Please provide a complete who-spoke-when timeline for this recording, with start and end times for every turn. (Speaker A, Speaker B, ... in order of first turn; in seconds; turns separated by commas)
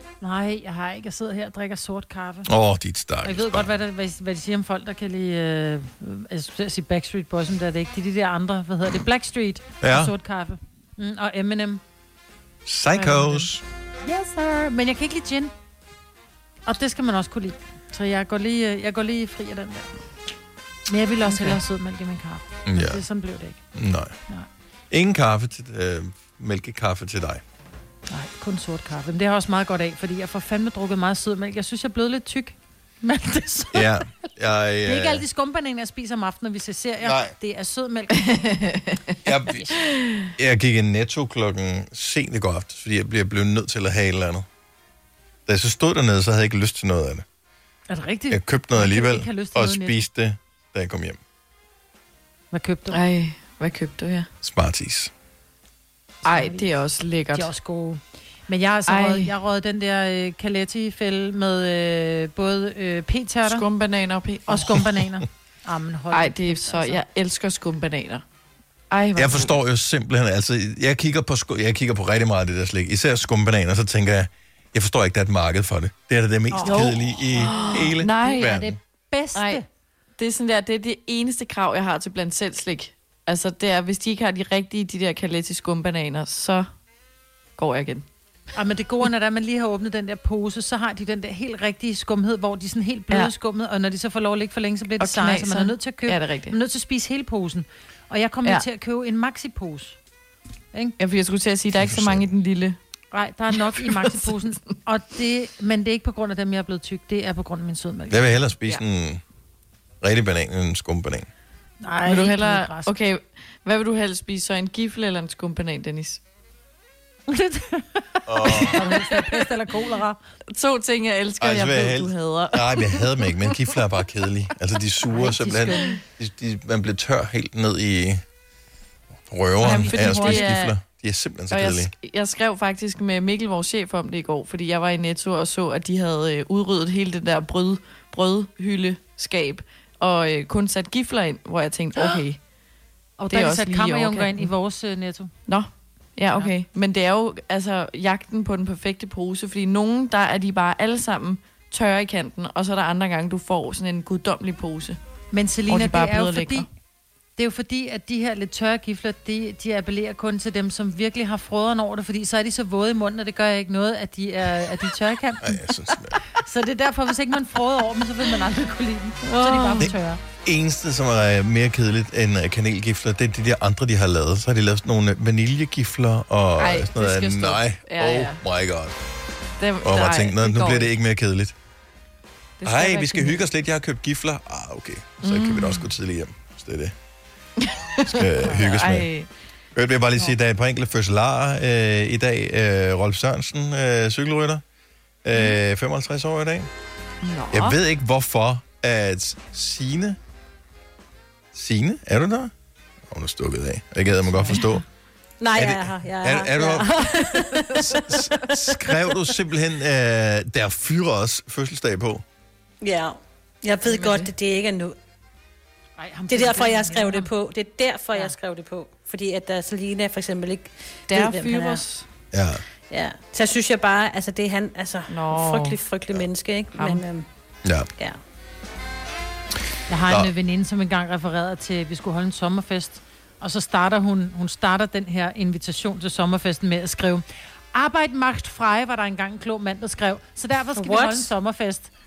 Speaker A: 0.2-2.5, Speaker B: 2.5-3.7, Speaker A: 3.2-11.8, Speaker B: 9.8-10.1, Speaker B: 12.7-13.6, Speaker C: 12.9-13.5, Speaker A: 14.1-15.5, Speaker A: 16.7-19.9, Speaker A: 20.9-23.6, Speaker C: 21.2-21.6, Speaker B: 22.7-23.0, Speaker B: 23.8-24.1, Speaker B: 24.9-27.4, Speaker A: 28.1-33.9, Speaker B: 33.7-35.2, Speaker A: 34.9-38.5, Speaker B: 37.0-37.3, Speaker C: 38.3-39.0, Speaker B: 39.2-39.8, Speaker C: 40.0-40.3, Speaker B: 40.4-44.5, Speaker B: 45.5-47.2, Speaker A: 47.9-50.0, Speaker B: 48.3-51.2, Speaker A: 52.5-53.0, Speaker C: 52.9-54.3, Speaker B: 54.4-55.1, Speaker A: 56.2-56.7, Speaker C: 56.2-57.5, Speaker A: 57.3-63.6, Speaker C: 58.9-59.3, Speaker C: 63.5-64.7, Speaker A: 64.5-67.0, Speaker C: 66.1-68.2, Speaker C: 68.9-69.6, Speaker B: 69.2-78.8, Speaker A: 76.5-76.8, Speaker C: 76.6-78.6, Speaker A: 77.5-79.7, Speaker C: 79.3-79.6, Speaker C: 80.2-86.7, Speaker C: 87.6-88.0, Speaker A: 88.5-100.0, Speaker C: 95.0-96.6, Speaker C: 101.0-102.8, Speaker B: 101.8-102.2, Speaker A: 103.1-108.4, Speaker C: 103.7-104.3, Speaker B: 108.1-109.2, Speaker B: 110.0-111.3, Speaker A: 111.8-112.9, Speaker C: 112.0-116.2, Speaker A: 117.3-120.2, Speaker B: 118.3-118.8, Speaker C: 120.5-123.6, Speaker B: 121.4-128.2, Speaker A: 125.1-126.0, Speaker B: 129.3-131.9, Speaker C: 129.6-130.7, Speaker A: 129.6-130.7, Speaker C: 131.5-142.4, Speaker A: 143.2-145.3, Speaker C: 143.3-144.5, Speaker C: 145.5-155.0, Speaker A: 155.3-156.7, Speaker C: 155.7-156.7, Speaker A: 157.4-165.6, Speaker B: 165.4-166.2, Speaker A: 166.4-170.2, Speaker C: 169.2-169.9, Speaker B: 170.4-178.9, Speaker C: 176.6-178.4, Speaker C: 179.6-180.9, Speaker B: 179.8-181.5, Speaker C: 182.6-183.5, Speaker B: 182.6-186.9, Speaker C: 185.2-185.9, Speaker C: 187.6-189.3, Speaker B: 188.1-189.1, Speaker B: 189.8-194.6, Speaker B: 195.2-196.7, Speaker C: 197.2-197.8, Speaker B: 197.5-200.2, Speaker B: 201.5-202.5, Speaker B: 203.1-204.8, Speaker C: 204.5-204.8, Speaker D: 205.4-208.9, Speaker B: 205.6-206.9, Speaker C: 207.5-207.8, Speaker B: 208.0-212.2, Speaker D: 212.8-215.0, Speaker C: 213.9-214.3, Speaker A: 216.0-217.3, Speaker D: 216.3-221.8, Speaker C: 221.1-222.0, Speaker B: 222.3-222.6, Speaker D: 222.9-227.3, Speaker C: 225.1-225.8, Speaker C: 226.8-227.1, Speaker A: 229.9-241.9, Speaker D: 240.8-241.3